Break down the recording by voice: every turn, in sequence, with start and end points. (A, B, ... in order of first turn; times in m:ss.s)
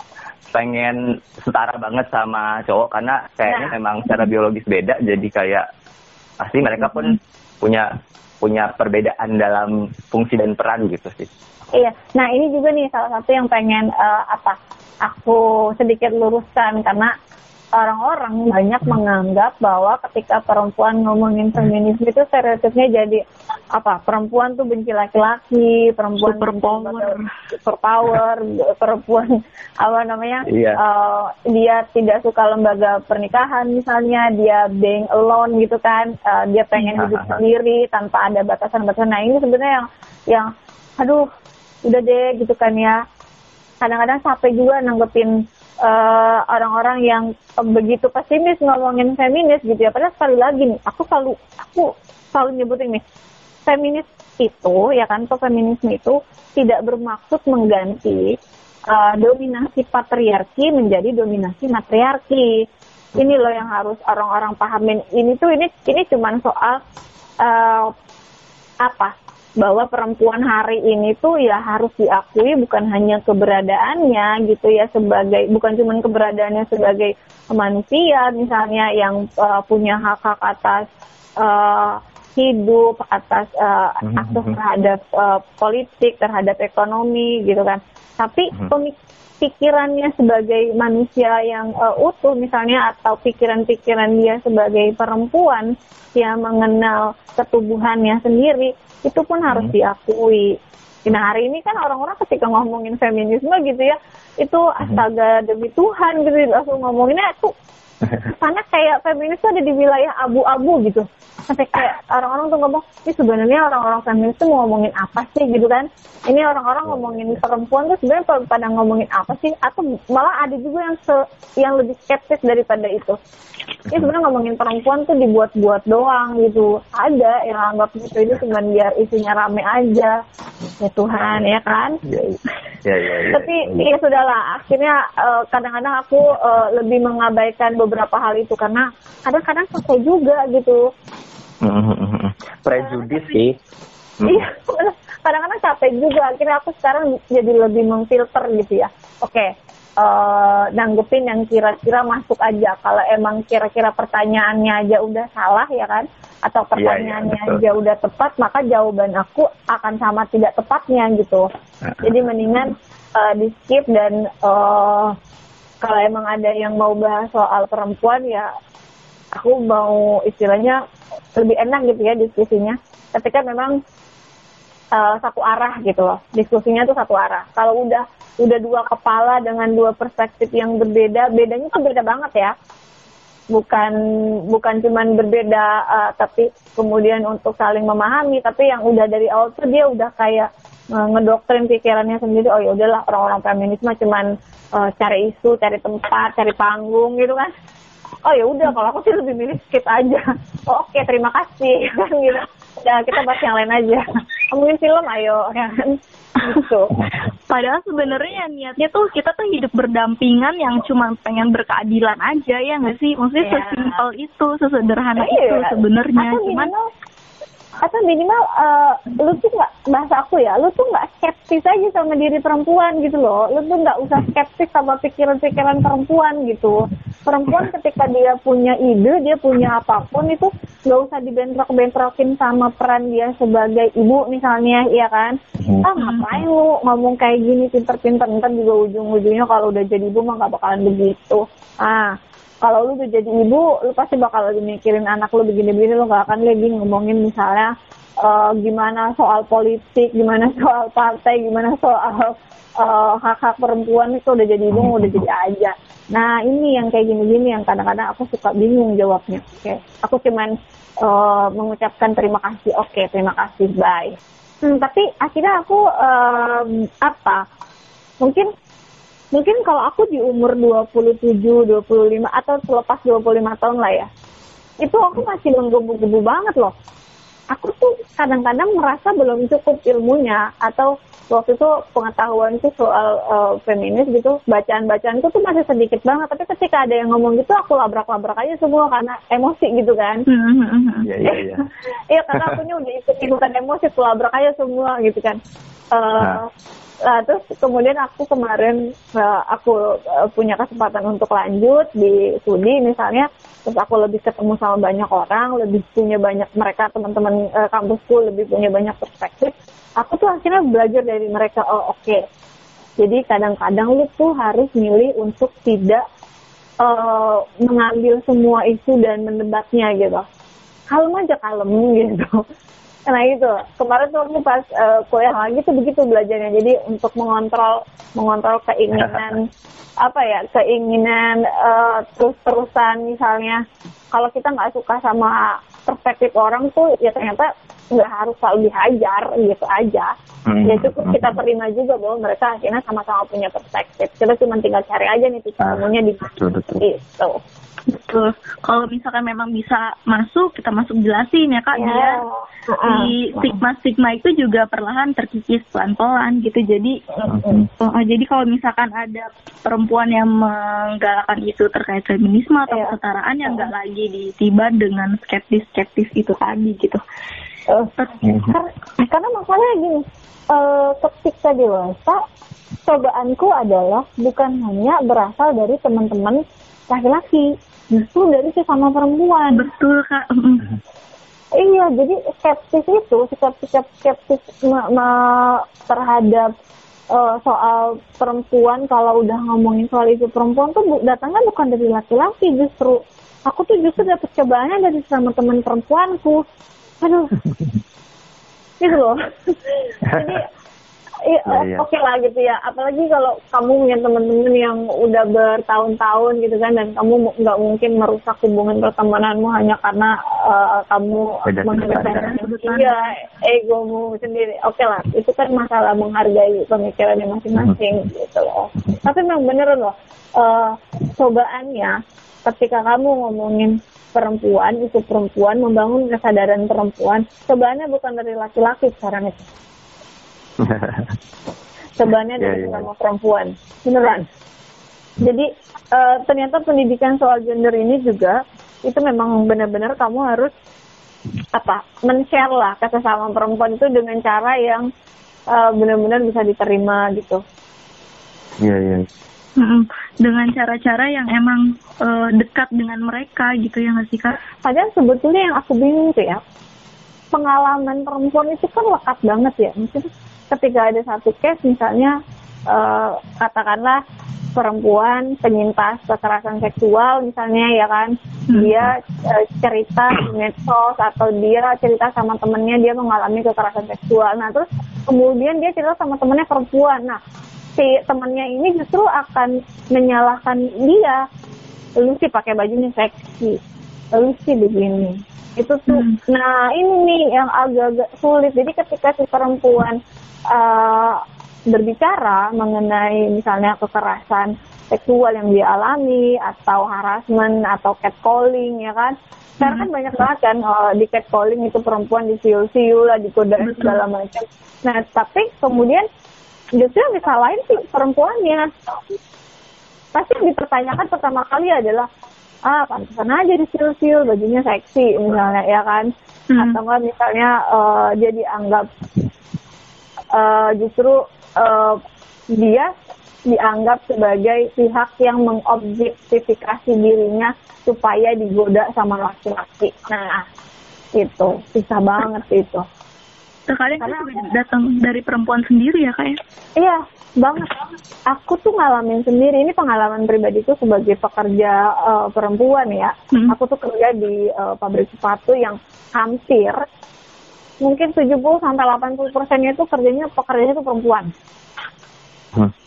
0:00.5-0:05.7 A
0:06.4-0:11.3 A
0:11.7-0:17.1 B
0:17.8-0:23.2 B
0:23.8-0:41.2 B
0:26.2-0:27.3 C
0:30.5-0:30.8 A
0:37.0-0:37.4 A
0:41.8-0:43.0 B
0:43.8-0:53.0 B
0:53.7-0:58.3 B
0:58.9-1:02.6 B
1:03.2-1:06.8 B
1:07.4-1:07.9 B
1:08.8-1:20.8 B
1:21.4-1:47.5 B
1:24.0-1:24.6 A
1:48.2-2:03.2 B
1:56.9-1:57.4 A
2:03.9-2:10.2 B
2:10.8-2:12.0 B
2:12.0-2:13.8 A
2:13.3-2:20.8 B
2:21.6-2:23.6 A
2:24.2-2:24.5 A
2:24.2-2:41.4 B
2:36.8-2:37.6 A
2:41.9-2:42.2 A
2:42.0-2:45.2 B
2:45.8-2:48.5 B
2:49.3-2:50.8 B
2:51.4-2:53.8 B
2:54.9-3:02.5 B
3:03.5-3:04.0 B
3:04.5-3:17.5 B
3:18.2-3:27.0 B
3:27.5-3:36.7 C
3:33.4-3:34.0 B
3:35.2-3:36.8 B
3:37.8-4:07.7 B
3:56.0-3:56.3 C
4:08.2-4:27.4 B
4:14.7-4:15.2 A
4:28.2-4:28.5 B
4:29.3-4:34.1 B
4:34.8-4:36.7 B
4:37.5-4:50.2 B
4:50.3-4:51.1 C
4:51.0-4:51.6 A
4:52.1-4:55.4 B
4:55.9-4:56.5 B
4:57.0-5:12.2 B
5:13.0-5:16.0 B
5:16.8-5:20.2 B
5:20.9-5:22.4 B
5:23.1-5:29.4 B
5:28.9-5:29.3 A
5:30.0-5:33.6 B
5:34.1-5:40.1 B
5:40.4-5:41.4 A
5:40.6-5:47.4 B
5:45.6-5:46.8 A
5:47.9-5:52.2 C
5:51.7-5:53.6 B
5:52.8-5:57.0 C
5:57.2-5:57.6 B
5:57.3-5:57.7 A
5:57.8-6:07.0 C
6:02.7-6:02.9 B
6:08.2-6:08.5 A
6:08.4-6:12.2 B
6:12.8-6:19.7 B
6:19.5-6:20.7 C
6:21.6-6:26.5 B
6:27.1-6:36.4 B
6:37.0-6:37.3 B
6:38.8-6:40.5 B
6:40.1-6:40.4 A
6:41.3-7:09.4 B
6:41.5-6:41.8 A
6:51.5-6:52.3 A
6:51.8-6:53.0 C
7:10.6-7:11.2 A
7:12.0-7:14.3 B
7:12.4-7:12.9 A
7:15.2-7:20.5 B
7:21.5-7:24.9 B
7:25.5-7:27.4 B
7:28.6-7:29.1 A
7:29.6-7:34.4 C
7:34.6-7:36.4 B
7:37.3-7:44.0 B
7:44.5-7:57.2 B
7:48.5-7:48.8 C
7:57.8-8:01.2 B
8:02.0-8:03.6 B
8:04.1-8:10.0 B
8:05.9-8:06.2 C
8:10.5-8:26.1 B
8:19.6-8:19.9 C
8:23.6-8:24.0 C
8:26.8-8:28.8 B
8:30.1-8:32.1 B
8:32.6-8:38.9 B
8:36.5-8:36.8 C
8:40.3-8:42.0 B
8:42.5-8:42.9 B
8:43.5-8:50.5 B
8:51.2-8:52.8 B
8:53.7-8:56.4 C
8:54.0-8:54.5 B
8:56.8-9:06.8 B
9:07.8-9:11.3 B